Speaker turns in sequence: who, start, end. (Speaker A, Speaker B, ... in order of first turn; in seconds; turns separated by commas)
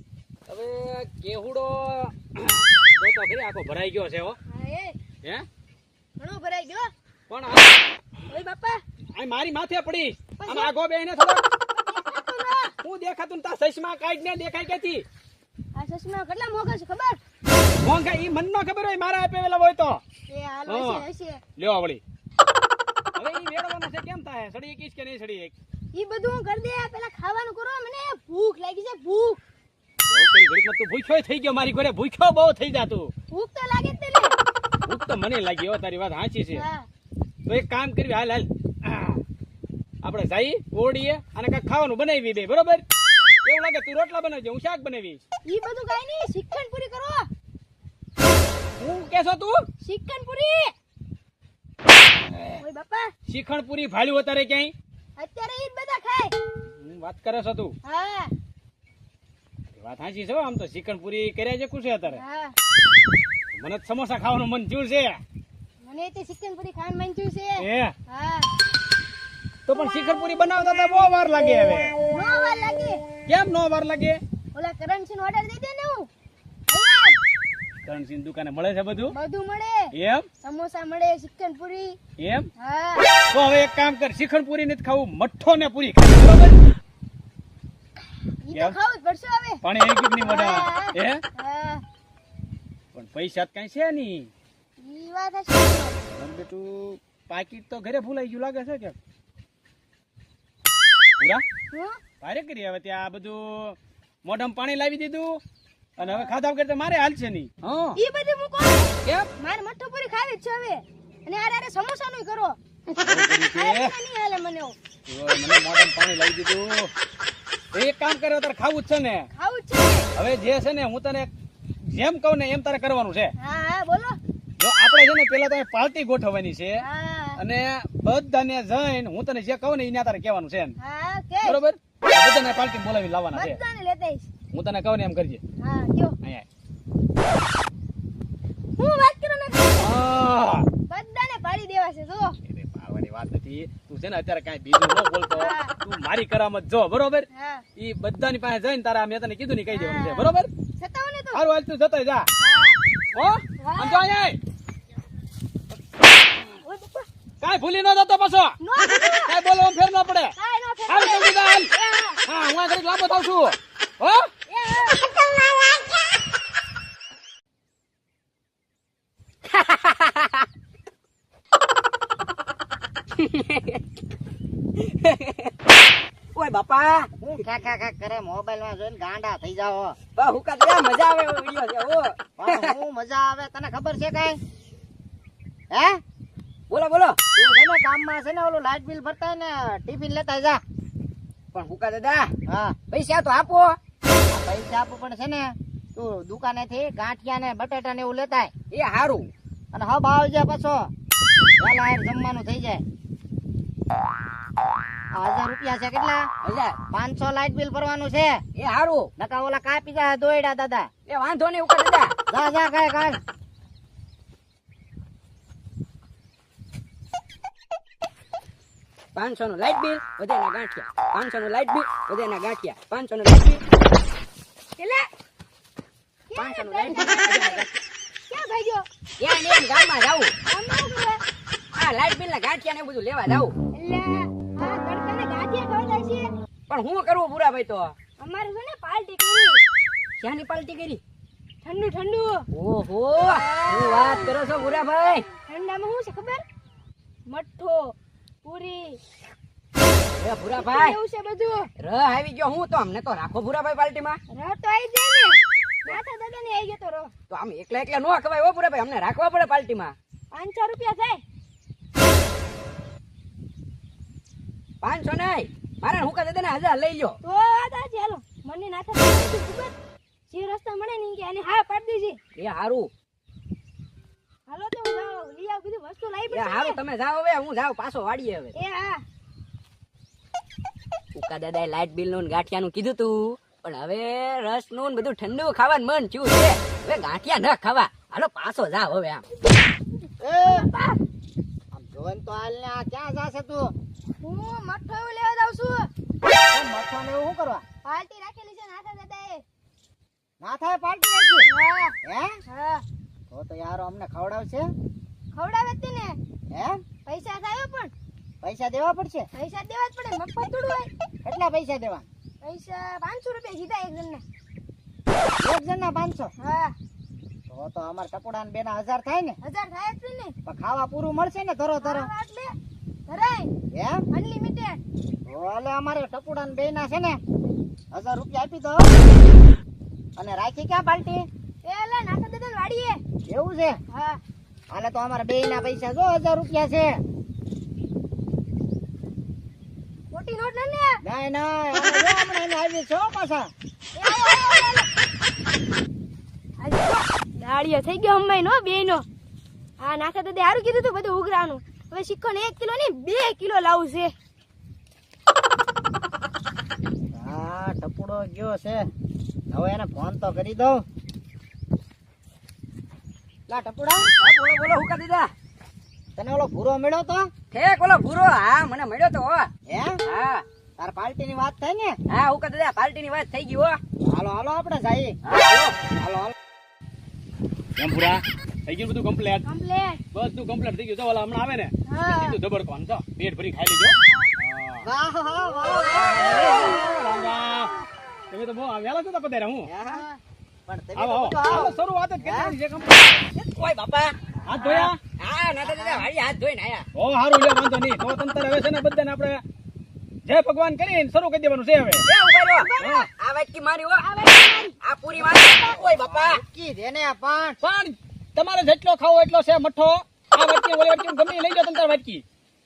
Speaker A: 0.5-4.4, Speaker B: 4.5-5.0, Speaker B: 6.2-6.9, Speaker A: 7.3-7.8, Speaker B: 8.3-8.8, Speaker A: 9.1-11.4, Speaker B: 10.4-10.7, Speaker B: 11.7-12.7, Speaker A: 12.8-15.0, Speaker B: 15.7-17.2, Speaker A: 17.8-20.0, Speaker B: 20.3-21.4, Speaker A: 20.6-21.0, Speaker A: 21.6-22.0, Speaker A: 23.1-25.5, Speaker B: 25.9-29.4, Speaker A: 30.1-33.1, Speaker B: 33.3-34.4, Speaker A: 34.9-36.6, Speaker B: 36.5-36.8, Speaker A: 37.5-39.2, Speaker A: 40.0-42.8, Speaker A: 43.4-45.2, Speaker B: 45.5-47.3, Speaker A: 48.8-49.6, Speaker B: 49.8-50.7, Speaker A: 52.3-52.6, Speaker B: 52.6-53.1, Speaker A: 53.3-54.7, Speaker B: 55.2-56.3, Speaker A: 56.7-57.7, Speaker B: 57.8-58.3, Speaker A: 59.8-62.2, Speaker B: 62.1-62.5, Speaker A: 63.5-65.2, Speaker B: 65.8-68.5, Speaker A: 67.6-67.9, Speaker A: 69.7-72.0, Speaker B: 72.1-73.0, Speaker A: 73.3-74.2, Speaker B: 74.5-76.1, Speaker B: 76.7-77.2, Speaker A: 77.8-79.1, Speaker B: 79.0-82.0, Speaker A: 79.9-80.3, Speaker A: 82.2-82.5, Speaker B: 82.6-83.1, Speaker A: 83.3-86.6, Speaker B: 88.4-89.6, Speaker A: 88.5-88.8, Speaker A: 89.6-91.2, Speaker B: 90.2-91.8, Speaker A: 92.9-94.3, Speaker B: 94.8-96.0, Speaker A: 96.2-99.0, Speaker A: 101.2-101.4, Speaker B: 101.7-102.0, Speaker A: 102.2-105.4, Speaker A: 106.0-108.0, Speaker B: 106.0-106.3, Speaker B: 108.0-114.8, Speaker A: 113.0-113.9, Speaker A: 115.1-116.9, Speaker A: 117.7-119.3, Speaker B: 119.3-120.1, Speaker A: 120.2-121.3, Speaker A: 121.8-123.3, Speaker B: 123.4-124.2, Speaker A: 124.6-126.8, Speaker B: 126.8-127.4, Speaker A: 127.4-130.7, Speaker B: 130.8-131.6, Speaker A: 131.4-133.6, Speaker B: 133.3-134.3, Speaker A: 134.5-135.4, Speaker B: 135.6-136.2, Speaker B: 138.8-139.9, Speaker A: 139.8-140.7, Speaker B: 140.9-142.3, Speaker A: 142.5-147.3, Speaker B: 145.3-145.7, Speaker B: 147.3-147.6, Speaker A: 147.8-150.5, Speaker B: 149.7-151.4, Speaker A: 151.3-152.3, Speaker B: 152.4-152.8, Speaker A: 153.1-154.4, Speaker B: 153.6-154.0, Speaker B: 156.4-157.1, Speaker A: 157.4-158.6, Speaker B: 158.6-159.3, Speaker A: 159.2-160.3, Speaker B: 160.4-162.2, Speaker A: 160.9-161.7, Speaker A: 162.2-164.3, Speaker B: 164.5-165.1, Speaker C: 169.5-170.4, Speaker C: 173.2-173.8, Speaker C: 174.8-175.5, Speaker C: 176.3-177.1, Speaker D: 177.2-179.9, Speaker C: 180.2-182.8, Speaker D: 182.4-184.4, Speaker D: 185.7-186.0, Speaker C: 186.7-187.2, Speaker D: 187.3-190.6, Speaker C: 191.5-192.3, Speaker D: 192.5-192.8, Speaker C: 192.9-193.8, Speaker D: 194.3-198.5, Speaker C: 198.7-199.3, Speaker D: 199.7-200.9, Speaker D: 201.6-202.8, Speaker D: 205.1-206.2, Speaker C: 206.4-206.8, Speaker D: 206.9-208.4, Speaker C: 208.6-209.1, Speaker D: 209.2-210.9, Speaker C: 211.1-212.1, Speaker D: 212.3-213.2, Speaker C: 219.1-223.6, Speaker B: 224.8-225.1, Speaker B: 226.3-227.6, Speaker C: 226.4-227.8, Speaker B: 228.3-228.8, Speaker C: 229.2-230.3, Speaker B: 230.4-231.2, Speaker C: 231.7-233.5, Speaker B: 233.7-236.3, Speaker C: 236.7-237.9, Speaker B: 238.2-239.6, Speaker C: 240.2-241.0, Speaker B: 241.6-242.4, Speaker C: 242.5-245.3, Speaker B: 243.2-244.3, Speaker B: 245.4-246.4, Speaker B: 247.3-249.0, Speaker C: 250.2-251.0, Speaker B: 250.5-251.7, Speaker C: 251.8-254.2, Speaker B: 254.3-257.1, Speaker C: 257.3-259.9, Speaker B: 260.3-261.2, Speaker C: 264.8-267.2, Speaker B: 267.2-269.7, Speaker B: 270.3-272.2, Speaker C: 272.4-272.9, Speaker B: 274.5-276.8, Speaker C: 276.3-278.6, Speaker B: 278.5-279.0, Speaker C: 281.1-289.2, Speaker D: 290.2-290.7, Speaker B: 290.4-291.0, Speaker D: 291.7-293.7, Speaker B: 294.2-295.9, Speaker D: 296.5-297.6, Speaker B: 297.8-299.4, Speaker D: 300.4-301.5, Speaker B: 301.5-301.9, Speaker D: 302.0-302.4, Speaker B: 302.5-302.8, Speaker D: 303.3-304.7, Speaker B: 305.3-306.2, Speaker D: 306.5-306.8, Speaker B: 307.1-307.9, Speaker D: 308.4-309.3, Speaker B: 309.4-310.9, Speaker D: 311.2-312.1, Speaker B: 312.4-314.2, Speaker D: 315.4-316.3, Speaker B: 316.4-316.7, Speaker D: 317.5-319.4, Speaker B: 319.4-320.3, Speaker D: 320.4-322.1, Speaker B: 321.8-322.5, Speaker B: 323.1-323.5, Speaker D: 323.7-324.0, Speaker B: 324.1-324.8, Speaker D: 325.3-327.2, Speaker D: 327.9-328.9, Speaker D: 330.1-331.2, Speaker B: 331.6-333.0, Speaker D: 333.3-333.8, Speaker B: 333.9-334.2, Speaker D: 334.7-337.0, Speaker B: 340.1-341.0, Speaker D: 341.0-343.5, Speaker B: 343.9-344.9, Speaker B: 346.6-349.0, Speaker B: 349.8-354.1, Speaker D: 357.1-358.8, Speaker D: 359.5-360.8, Speaker D: 363.5-364.1, Speaker C: 364.0-365.3, Speaker D: 366.1-367.3, Speaker C: 367.5-369.5, Speaker D: 369.7-370.0, Speaker C: 370.1-370.4, Speaker D: 370.8-371.9, Speaker C: 372.1-373.8, Speaker D: 374.0-375.1, Speaker C: 375.2-375.8, Speaker D: 375.9-376.3, Speaker A: 377.8-379.5, Speaker B: 379.4-380.0, Speaker A: 380.1-384.9, Speaker B: 381.9-382.4, Speaker B: 384.0-384.3, Speaker D: 384.8-386.8, Speaker B: 385.9-386.9, Speaker A: 385.9-387.7, Speaker A: 388.3-389.7, Speaker D: 389.7-392.5, Speaker A: 390.9-393.2, Speaker C: 393.3-396.9, Speaker A: 394.5-395.0, Speaker D: 395.6-396.1, Speaker A: 396.9-399.4, Speaker A: 400.2-402.0, Speaker C: 402.1-404.2, Speaker B: 402.6-403.1, Speaker A: 402.8-403.1, Speaker B: 404.0-404.8, Speaker C: 404.8-406.4, Speaker D: 405.2-407.6, Speaker B: 405.4-405.7, Speaker A: 407.6-412.2